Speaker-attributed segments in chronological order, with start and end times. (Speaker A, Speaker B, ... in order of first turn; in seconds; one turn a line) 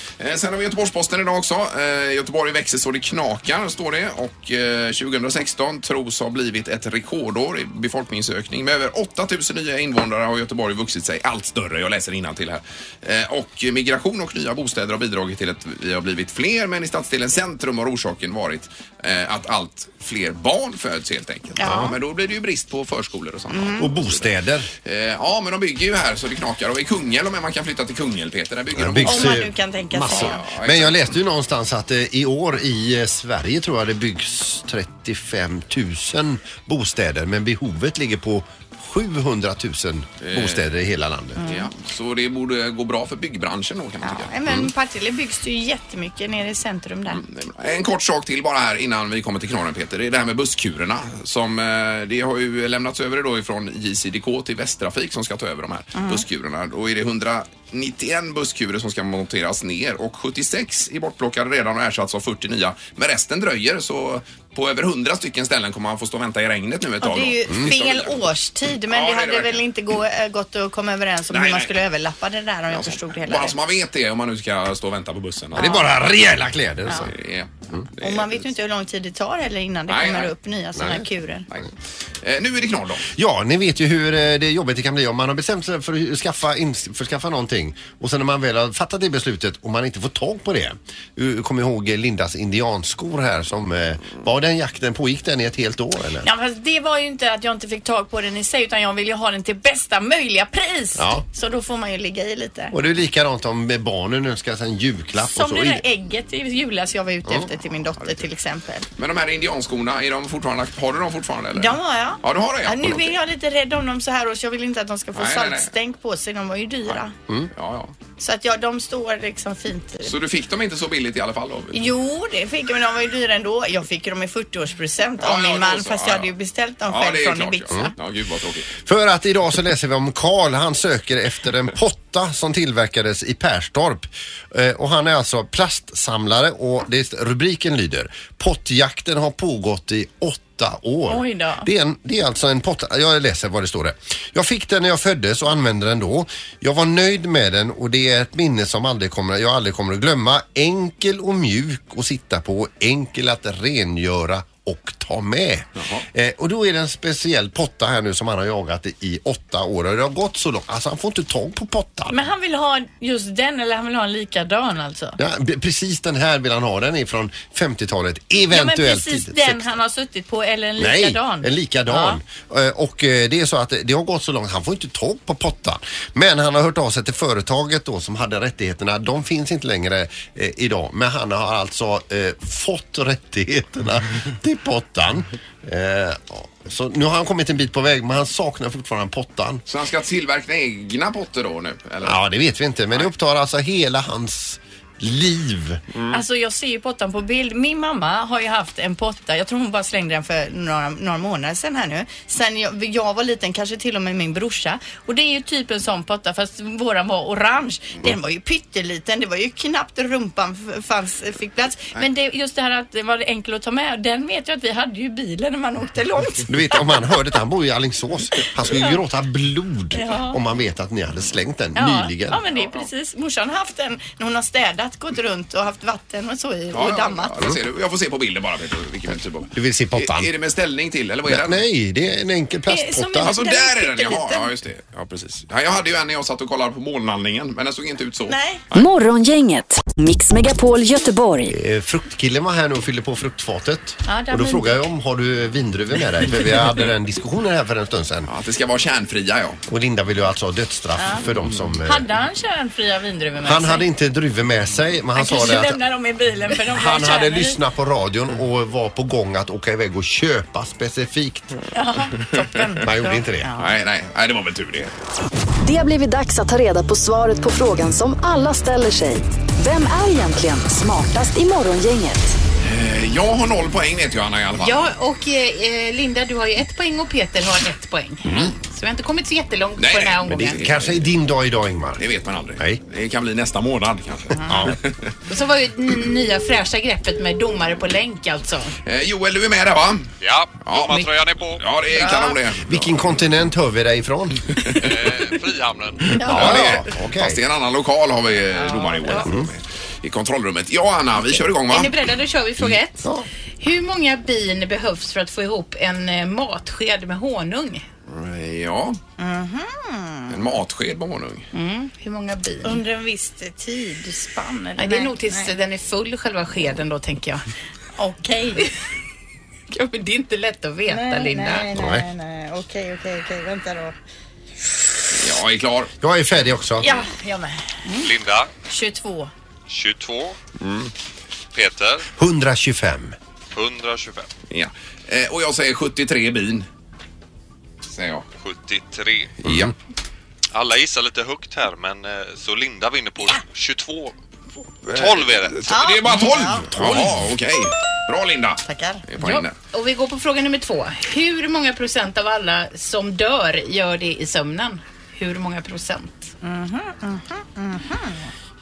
Speaker A: 0.2-29.4
Speaker B: 21.6-21.9
Speaker C: 21.6-21.9
Speaker B: 23.5-23.9
Speaker C: 23.8-24.7
Speaker C: 28.7-41.4
Speaker B: 29.1-30.4
Speaker A: 30.1-31.1
Speaker A: 40.2-40.6
Speaker B: 41.4-41.7
Speaker A: 41.4-44.7
Speaker B: 44.0-47.2
Speaker A: 47.1-68.3
Speaker B: 55.9-56.2
Speaker B: 67.0-73.5
Speaker A: 68.9-69.6
Speaker A: 71.3-71.8
Speaker A: 72.7-75.7
Speaker B: 75.5-75.9
Speaker C: 75.5-77.1
Speaker A: 77.0-78.5
Speaker B: 78.0-81.5
Speaker A: 79.9-80.3
Speaker C: 80.8-81.0
Speaker A: 82.2-83.1
Speaker C: 83.1-96.3
Speaker B: 96.2-102.7
Speaker C: 101.0-101.2
Speaker C: 102.7-105.8
Speaker B: 105.2-108.8
Speaker A: 109.0-113.2
Speaker B: 111.5-117.1
Speaker A: 115.1-115.7
Speaker A: 117.5-117.9
Speaker B: 118.2-120.1
Speaker A: 120.0-121.8
Speaker B: 121.7-127.9
Speaker A: 125.2-126.3
Speaker A: 126.9-128.7
Speaker C: 128.8-162.1
Speaker B: 141.1-141.7
Speaker A: 155.8-156.0
Speaker B: 162.1-165.2
Speaker C: 165.2-169.7
Speaker B: 168.5-172.2
Speaker C: 170.8-189.6
Speaker A: 189.7-192.2
Speaker C: 192.0-195.8
Speaker A: 195.9-196.2
Speaker B: 196.1-217.2
Speaker C: 216.5-222.4
Speaker B: 219.9-220.4
Speaker B: 221.8-227.3
Speaker A: 222.5-222.8
Speaker A: 226.7-231.6
Speaker C: 229.5-230.3
Speaker C: 231.3-233.4
Speaker B: 232.7-234.5
Speaker A: 233.2-238.9
Speaker B: 238.3-238.6
Speaker D: 238.7-241.5
Speaker C: 241.5-248.3
Speaker B: 244.0-244.8
Speaker A: 248.2-249.6
Speaker C: 249.7-252.0
Speaker B: 251.0-251.2
Speaker B: 251.8-253.9
Speaker C: 253.4-255.8
Speaker B: 255.1-257.6
Speaker C: 256.7-261.6
Speaker B: 261.7-263.7
Speaker C: 262.8-263.5
Speaker A: 263.6-264.9
Speaker D: 265.6-272.4
Speaker A: 272.6-274.8
Speaker E: 274.6-280.7
Speaker A: 279.8-280.9
Speaker C: 280.3-282.8
Speaker A: 282.0-285.1
Speaker C: 284.5-284.8
Speaker E: 285.3-288.8
Speaker A: 288.9-290.1
Speaker F: 290.2-291.6
Speaker A: 290.6-293.1
Speaker B: 291.9-292.4
Speaker C: 292.6-294.5
Speaker A: 294.6-294.9
Speaker F: 294.8-296.1
Speaker B: 296.2-296.5
Speaker A: 296.2-301.9
Speaker C: 296.2-297.4
Speaker B: 298.6-299.3
Speaker C: 299.2-299.5
Speaker E: 301.7-307.8
Speaker C: 302.6-303.2
Speaker A: 308.1-309.0
Speaker B: 309.2-310.4
Speaker A: 310.3-311.5
Speaker B: 311.5-311.9
Speaker E: 311.9-312.8
Speaker B: 312.6-315.5
Speaker E: 314.8-317.4
Speaker B: 318.0-318.7
Speaker E: 319.7-321.7
Speaker B: 320.9-323.9
Speaker C: 321.7-322.0
Speaker A: 325.1-325.9
Speaker C: 326.0-326.9
Speaker B: 326.8-328.1
Speaker F: 328.0-328.5
Speaker B: 328.7-329.3
Speaker F: 329.7-330.4
Speaker A: 330.6-330.9
Speaker F: 331.5-332.1
Speaker C: 332.2-333.1
Speaker F: 333.5-334.3
Speaker A: 334.5-336.7
Speaker A: 337.9-338.2
Speaker F: 338.4-339.4
Speaker A: 339.4-339.7
Speaker C: 339.4-339.7
Speaker F: 340.5-344.1
Speaker A: 344.9-349.5
Speaker F: 344.9-345.6
Speaker B: 345.7-346.7
Speaker C: 346.7-347.2
Speaker B: 348.6-349.0
Speaker E: 349.2-356.3
Speaker B: 356.4-358.3